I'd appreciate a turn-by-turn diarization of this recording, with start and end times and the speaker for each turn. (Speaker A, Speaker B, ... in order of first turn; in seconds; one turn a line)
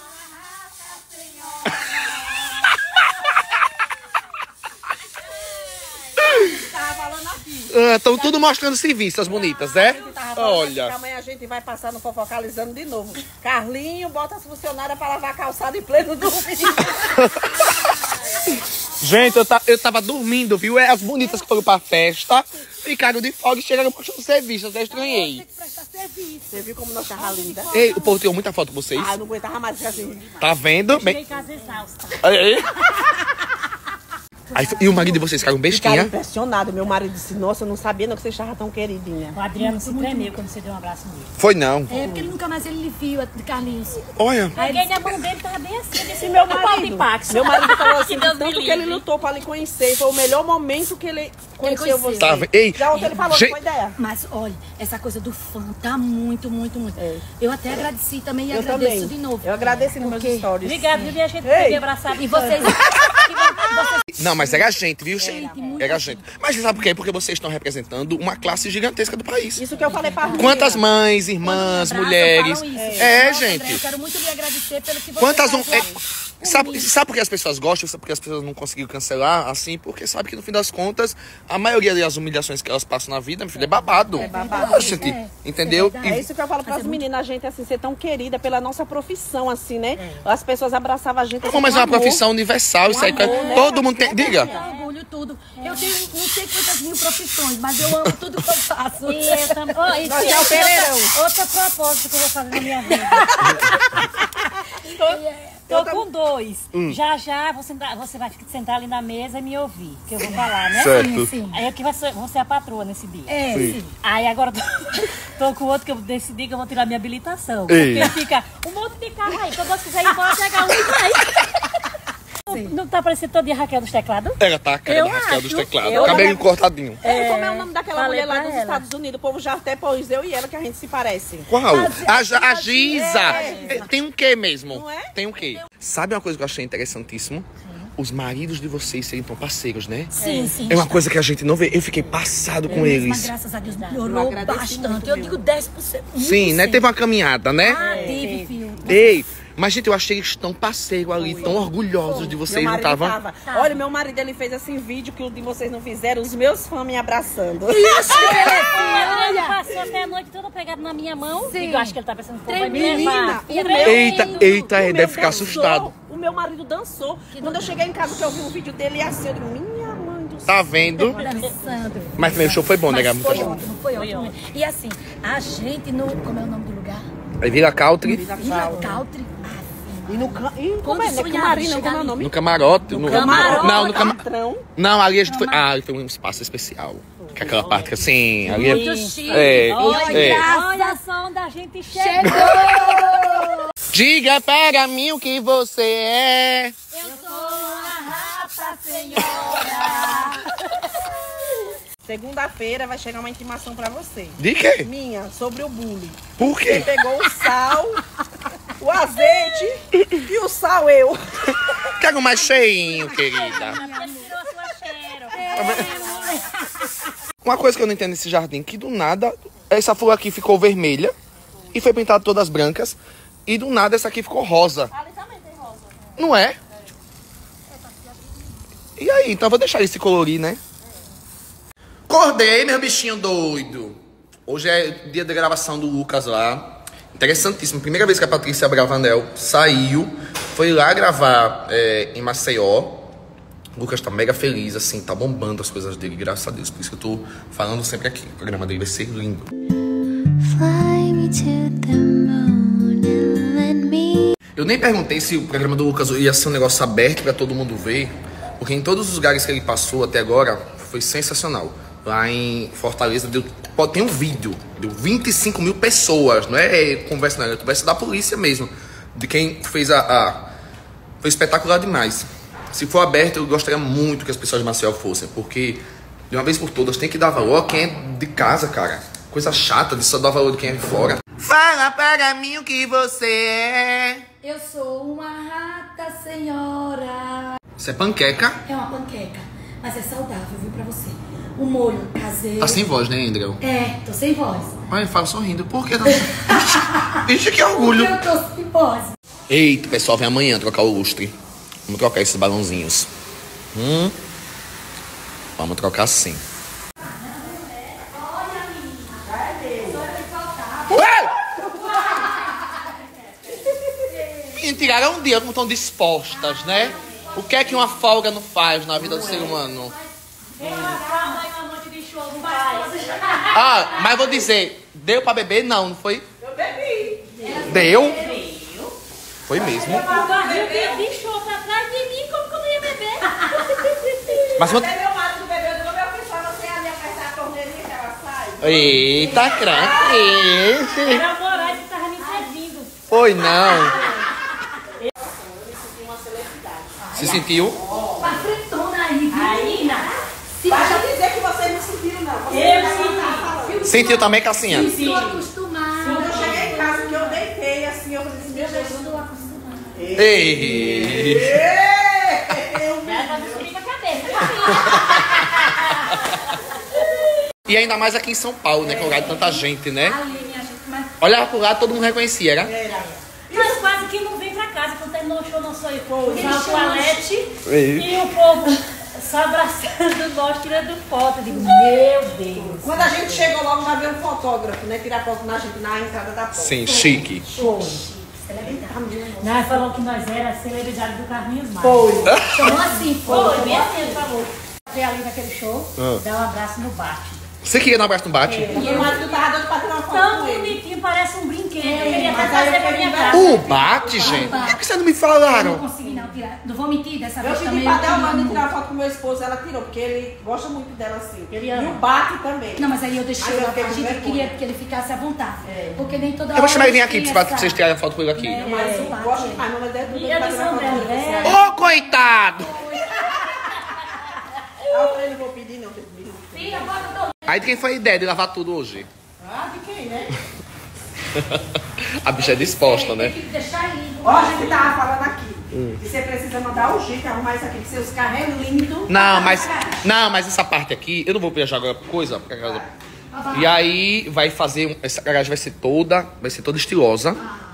Speaker A: 1.2-1.9
Speaker B: 6.2-8.4
Speaker C: 7.7-10.9
Speaker B: 9.5-17.1
Speaker C: 17.1-17.9
Speaker C: 19.0-25.4
Speaker A: 24.9-28.2
Speaker B: 26.5-27.7
Speaker C: 27.7-29.1
Speaker B: 28.9-30.4
Speaker C: 30.4-31.2
Speaker D: 30.9-32.2
Speaker C: 32.2-32.7
Speaker A: 34.5-35.3
Speaker C: 34.5-36.1
Speaker B: 35.7-39.4
Speaker D: 39.3-41.3
Speaker A: 39.5-40.4
Speaker C: 41.4-41.9
Speaker A: 41.9-45.2
Speaker B: 42.0-42.3
Speaker C: 44.1-44.5
Speaker D: 44.5-49.0
Speaker B: 46.0-54.0
Speaker A: 51.6-52.3
Speaker C: 52.2-53.6
Speaker A: 52.9-53.3
Speaker A: 54.0-60.5
Speaker B: 58.5-63.8
Speaker D: 60.6-62.7
Speaker A: 62.2-64.6
Speaker C: 64.2-69.6
Speaker A: 65.1-66.2
Speaker B: 65.2-65.8
Speaker B: 69.6-70.8
Speaker A: 70.1-70.5
Speaker C: 70.3-73.8
Speaker A: 71.4-76.9
Speaker B: 72.7-73.1
Speaker C: 75.2-86.2
Speaker B: 75.7-76.0
Speaker B: 83.6-85.1
Speaker A: 84.1-87.0
Speaker B: 86.0-92.2
Speaker C: 91.4-94.5
Speaker B: 92.8-94.7
Speaker A: 93.0-100.7
Speaker D: 99.0-103.5
Speaker B: 100.0-101.1
Speaker B: 104.8-106.0
Speaker A: 105.1-105.6
Speaker D: 105.7-121.4
Speaker A: 110.2-111.6
Speaker C: 110.7-111.3
Speaker A: 113.3-113.9
Speaker C: 117.7-118.1
Speaker D: 122.5-126.3
Speaker A: 122.5-122.7
Speaker C: 124.4-127.0
Speaker B: 125.8-126.5
Speaker B: 127.0-131.6
Speaker D: 127.0-128.8
Speaker C: 131.5-140.1
Speaker A: 131.7-133.8
Speaker B: 132.3-133.9
Speaker B: 134.7-135.1
Speaker B: 140.2-140.6
Speaker A: 140.2-141.0
Speaker C: 140.7-143.3
Speaker A: 142.7-146.9
Speaker B: 143.8-145.4
Speaker C: 146.2-148.0
Speaker A: 147.6-149.1
Speaker B: 147.7-149.0
Speaker C: 148.8-153.2
Speaker B: 151.2-159.2
Speaker A: 153.5-153.8
Speaker A: 157.7-159.6
Speaker D: 158.1-164.4
Speaker A: 161.3-164.4
Speaker B: 162.5-171.8
Speaker C: 163.8-165.9
Speaker A: 167.3-167.8
Speaker C: 170.4-171.2
Speaker A: 171.0-177.0
Speaker C: 172.2-173.6
Speaker B: 173.3-173.6
Speaker D: 173.9-174.3
Speaker C: 177.4-178.3
Speaker B: 178.0-179.0
Speaker A: 178.3-182.2
Speaker B: 180.1-182.3
Speaker C: 182.2-184.2
Speaker B: 182.9-184.6
Speaker A: 183.1-184.1
Speaker C: 184.8-190.4
Speaker A: 185.2-185.6
Speaker A: 188.4-191.0
Speaker D: 188.6-192.6
Speaker B: 189.8-190.6
Speaker A: 191.9-193.6
Speaker C: 192.2-192.8
Speaker C: 193.9-196.7
Speaker A: 196.9-200.4
Speaker B: 197.1-200.3
Speaker B: 202.0-208.0
Speaker C: 204.4-204.9
Speaker C: 206.4-206.9
Speaker B: 208.8-211.3
Speaker C: 212.0-213.8
Speaker D: 213.4-216.4
Speaker A: 213.6-214.2
Speaker B: 215.4-216.3
Speaker A: 215.4-216.4
Speaker C: 217.4-221.1
Speaker C: 221.7-224.9
Speaker B: 224.9-226.1
Speaker C: 226.2-226.6
Speaker C: 229.0-230.6
Speaker C: 232.1-243.0
Speaker C: 243.8-249.5
Speaker E: 250.4-254.3
Speaker C: 254.6-270.5
Speaker C: 271.2-284.2
Speaker A: 284.4-287.5
Speaker C: 287.8-288.6
Speaker A: 288.7-292.8
Speaker C: 292.6-293.6
Speaker A: 293.6-294.7
Speaker C: 294.9-298.1
Speaker A: 296.1-299.1
Speaker C: 299.5-301.3
Speaker C: 301.9-303.1
Speaker C: 303.7-304.1
Speaker C: 305.6-306.4
Speaker A: 308.0-309.2
Speaker B: 309.3-310.1
Speaker A: 309.9-311.0
Speaker C: 310.9-311.3
Speaker A: 311.9-312.2
Speaker C: 314.5-319.9
Speaker A: 316.4-317.7
Speaker B: 319.0-319.4
Speaker D: 320.6-323.5
Speaker B: 320.6-321.1
Speaker B: 322.5-324.0
Speaker A: 323.2-323.6
Speaker C: 323.5-326.2
Speaker B: 326.4-328.9
Speaker A: 327.4-328.1
Speaker C: 327.6-328.2
Speaker C: 329.4-330.1
Speaker B: 329.5-331.0
Speaker D: 329.9-333.5
Speaker B: 333.7-340.9
Speaker C: 334.6-334.9
Speaker C: 338.6-341.2
Speaker D: 341.0-343.7
Speaker A: 342.2-342.5
Speaker C: 343.1-343.9
Speaker A: 343.6-344.0
Speaker B: 345.2-348.5
Speaker A: 347.0-347.4
Speaker C: 347.1-347.8
Speaker A: 348.2-349.8
Speaker D: 349.3-350.1
Speaker B: 349.6-350.0
Speaker A: 350.6-351.1
Speaker B: 350.6-354.1
Speaker D: 352.5-353.7
Speaker A: 353.6-357.4
Speaker C: 353.8-354.9
Speaker B: 354.9-355.4
Speaker B: 356.0-359.1
Speaker D: 356.0-356.8
Speaker A: 358.3-360.0
Speaker B: 359.9-363.7
Speaker C: 360.1-361.6
Speaker D: 363.0-365.2
Speaker B: 364.3-364.9
Speaker A: 364.7-365.4
Speaker C: 367.7-370.2
Speaker B: 368.8-369.5
Speaker A: 370.0-371.1
Speaker C: 371.2-372.7
Speaker B: 372.6-373.9
Speaker D: 373.5-383.5
Speaker B: 376.1-377.0
Speaker A: 376.3-377.3
Speaker C: 377.6-378.0
Speaker B: 382.5-388.0
Speaker C: 386.5-387.5
Speaker A: 386.9-389.0
Speaker B: 388.5-389.9
Speaker D: 389.4-392.3
Speaker B: 391.8-393.9
Speaker C: 392.3-392.7
Speaker A: 392.4-394.2
Speaker D: 393.2-397.4
Speaker C: 397.6-399.0
Speaker B: 398.5-400.8
Speaker A: 398.7-399.4
Speaker D: 398.8-399.3
Speaker D: 400.1-403.7
Speaker A: 401.8-402.7
Speaker B: 401.8-404.7
Speaker C: 403.3-405.8
Speaker A: 404.2-404.8
Speaker A: 405.4-408.7
Speaker B: 406.0-406.3
Speaker B: 407.4-414.6
Speaker D: 411.5-412.0
Speaker A: 412.8-417.8
Speaker B: 415.6-416.0
Speaker C: 416.5-418.6
Speaker A: 418.4-419.7
Speaker B: 418.6-421.6
Speaker D: 418.6-419.1
Speaker D: 420.1-421.6
Speaker C: 421.4-422.8
Speaker A: 422.8-423.1
Speaker B: 424.9-427.0
Speaker A: 426.5-427.3
Speaker C: 427.5-429.1
Speaker B: 429.4-430.3
Speaker C: 431.4-433.3
Speaker A: 432.4-434.9
Speaker B: 434.2-439.8
Speaker C: 439.1-442.8
Speaker A: 439.3-439.6
Speaker B: 442.6-442.9
Speaker A: 443.3-443.7
Speaker C: 443.5-447.4